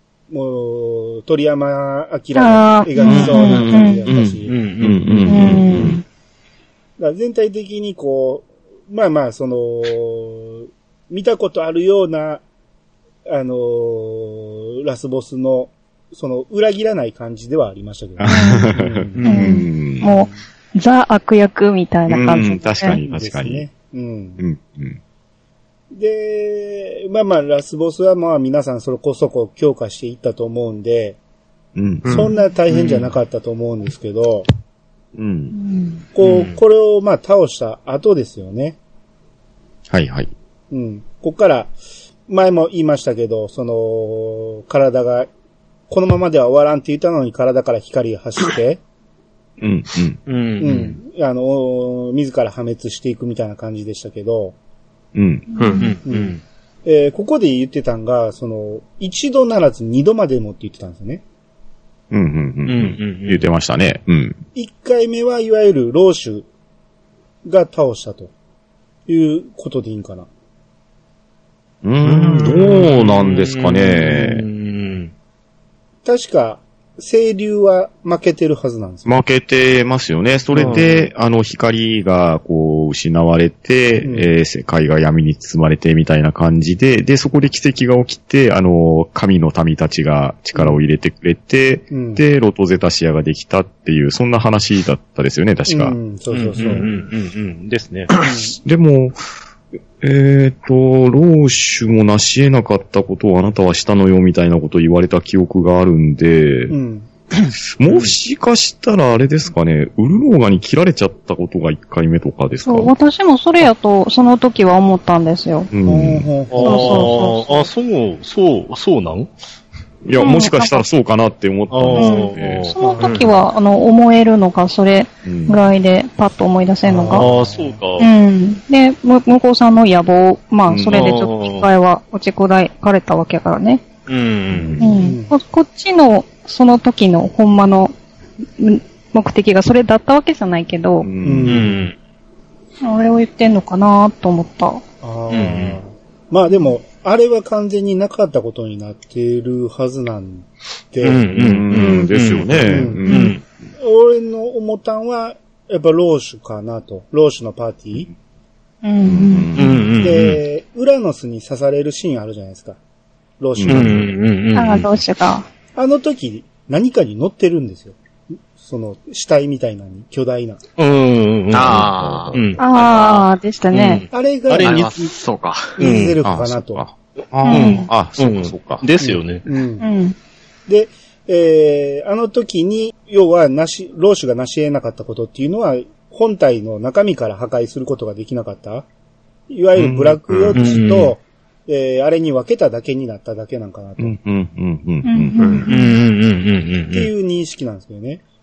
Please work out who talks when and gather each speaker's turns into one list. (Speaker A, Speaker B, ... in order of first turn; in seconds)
Speaker A: 0.3-4.5, 7.0-12.4, 13.2-19.3, 23.0-24.4, 25.9-31.2, 32.0-34.5, 36.1-38.8, 40.7-41.7, 42.3-45.3, 45.9-48.8, 50.6-54.5, 56.0-61.2, 64.5-66.5, 67.4-68.3, 69.1-70.3, 76.0-79.2, 80.5-80.9, 84.0-84.3, 90.5-90.8, 91.9-92.2, 95.7-96.9, 98.2-98.5, 106.7-107.1, 115.8-117.1, 126.8-127.8, 134.9-135.3, 141.2-141.9, 145.0-151.2, 152.7-153.0, 153.8-158.1, 160.0-162.8, 163.4-164.0, 165.8-167.9, 168.5-170.6, 174.1-174.9, 175.8-176.8, 179.0-179.8, 180.7-188.8, 189.5-194.2, 196.9-198.2
Speaker B: 2.3-4.1, 5.2-6.0, 18.3-18.7, 19.2-23.0, 35.5-36.0, 55.5-56.0, 112.6-115.7, 116.6-117.7, 120.2-120.8, 121.9-127.3, 128.0-133.9, 134.8-137.9, 138.6-141.1, 142.8-144.8, 153.1-153.3, 158.8-159.6, 164.5-165.5, 172.6-174.0, 177.4-177.9, 179.8-180.2, 195.0-195.9
Speaker C: 3.0-6.0, 18.2-20.1, 22.1-23.6, 24.4-25.0, 31.7-32.3, 35.1-35.5, 39.9-40.3, 49.6-50.2, 55.1-55.5, 62.1-64.4, 71.8-74.5, 79.0-96.0, 98.6-99.2, 100.0-106.7, 107.6-112.9, 115.7-116.3, 120.0-122.7, 125.2-125.6, 130.7-131.1, 134.5-135.0, 141.0-141.6, 151.3-153.4, 159.0-160.0, 163.6-164.1, 171.5-172.5, 176.2-178.8, 189.7-190.8, 194.0-195.7
Speaker D: 4.5-5.9, 19.2-19.6, 32.7-33.1, 36.2-36.6, 50.3-51.0, 55.8-56.4, 62.7-63.4, 72.0-75.1, 80.5-81.1, 96.3-98.1, 107.9-108.1, 116.5-119.3, 121.7-123.3, 126.9-128.1, 130.9-131.7, 134.1-134.8, 141.4-141.9, 145.3-145.8, 151.0-153.4, 159.6-160.4, 163.7-164.8, 170.8-173.0, 173.7-175.1, 175.8-176.2, 177.4-179.4, 190.5-191.1, 195.7-197.1
Speaker E: 32.0-32.3, 55.6-55.9, 123.0-123.3, 171.5-173.2, 174.6-175.8, 195.4-195.7